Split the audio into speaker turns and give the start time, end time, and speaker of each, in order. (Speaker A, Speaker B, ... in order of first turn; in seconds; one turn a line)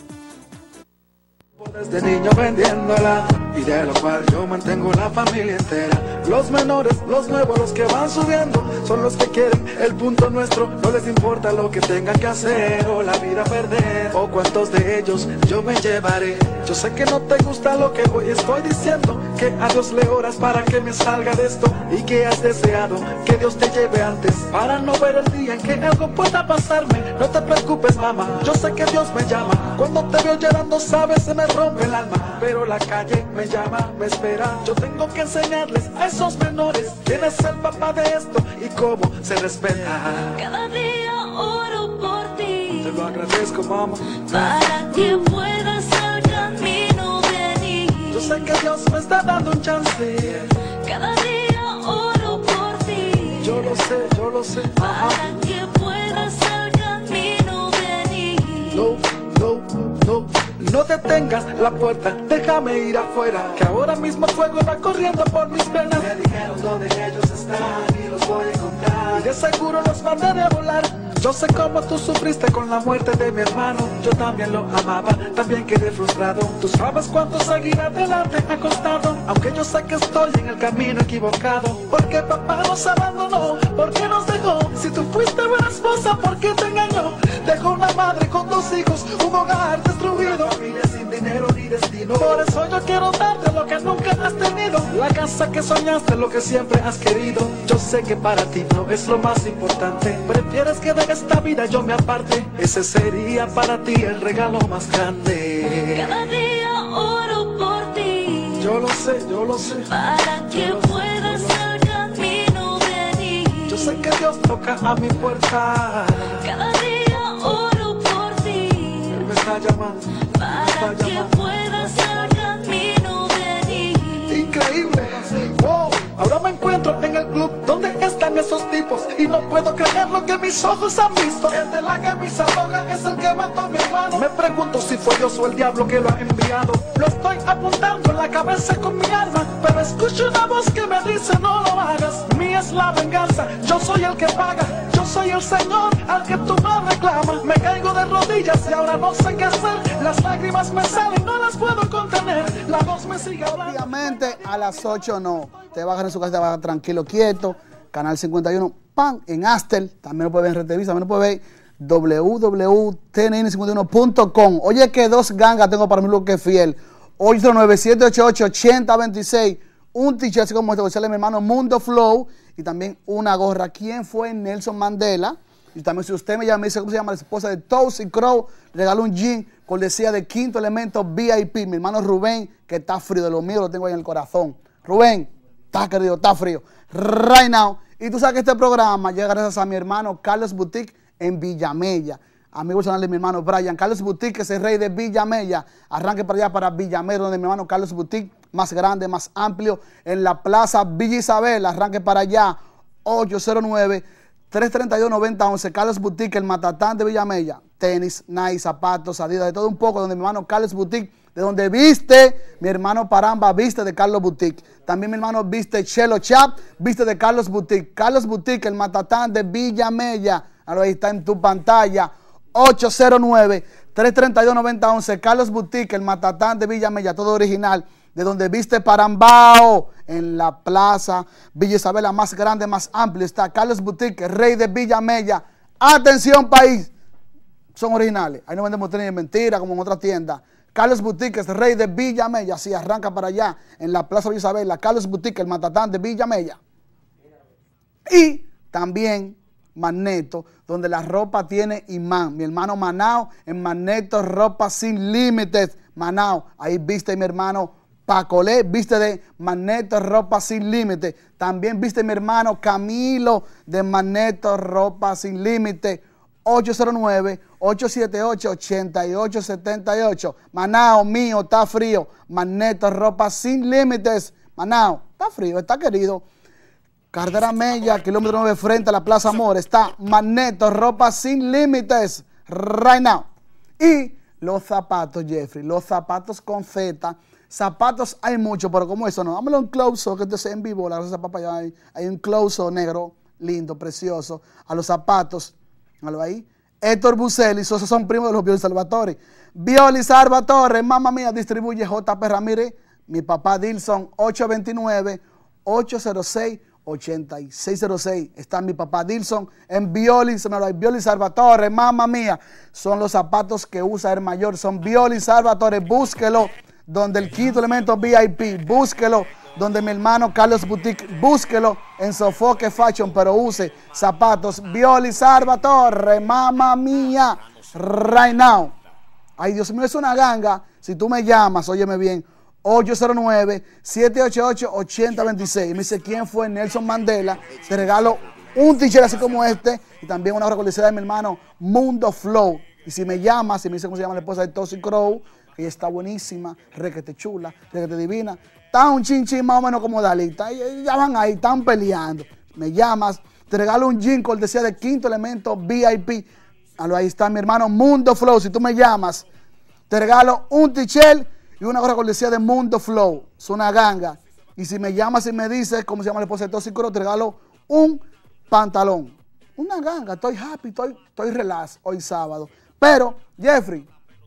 Speaker A: 1.6-40.4
Speaker B: 40.3-43.1
Speaker A: 42.8-44.5
Speaker B: 44.2-48.5
Speaker A: 48.1-50.5
Speaker B: 50.7-53.8
Speaker A: 53.4-55.4
Speaker B: 54.8-58.8
Speaker A: 58.7-106.0
Speaker B: 105.9-108.6
Speaker A: 108.6-109.9
Speaker B: 109.8-114.0
Speaker A: 110.5-111.6
Speaker A: 113.7-116.4
Speaker B: 116.4-119.3
Speaker A: 119.1-121.3
Speaker B: 120.3-124.4
Speaker A: 121.9-122.3
Speaker A: 124.3-153.9
Speaker C: 153.4-236.9
Speaker C: 237.7-246.6
Speaker C: 248.1-276.2
Speaker C: 277.1-283.3
Speaker C: 283.8-328.7
Speaker C: 329.4-356.3
Speaker C: 356.8-359.3
Speaker C: 359.9-373.9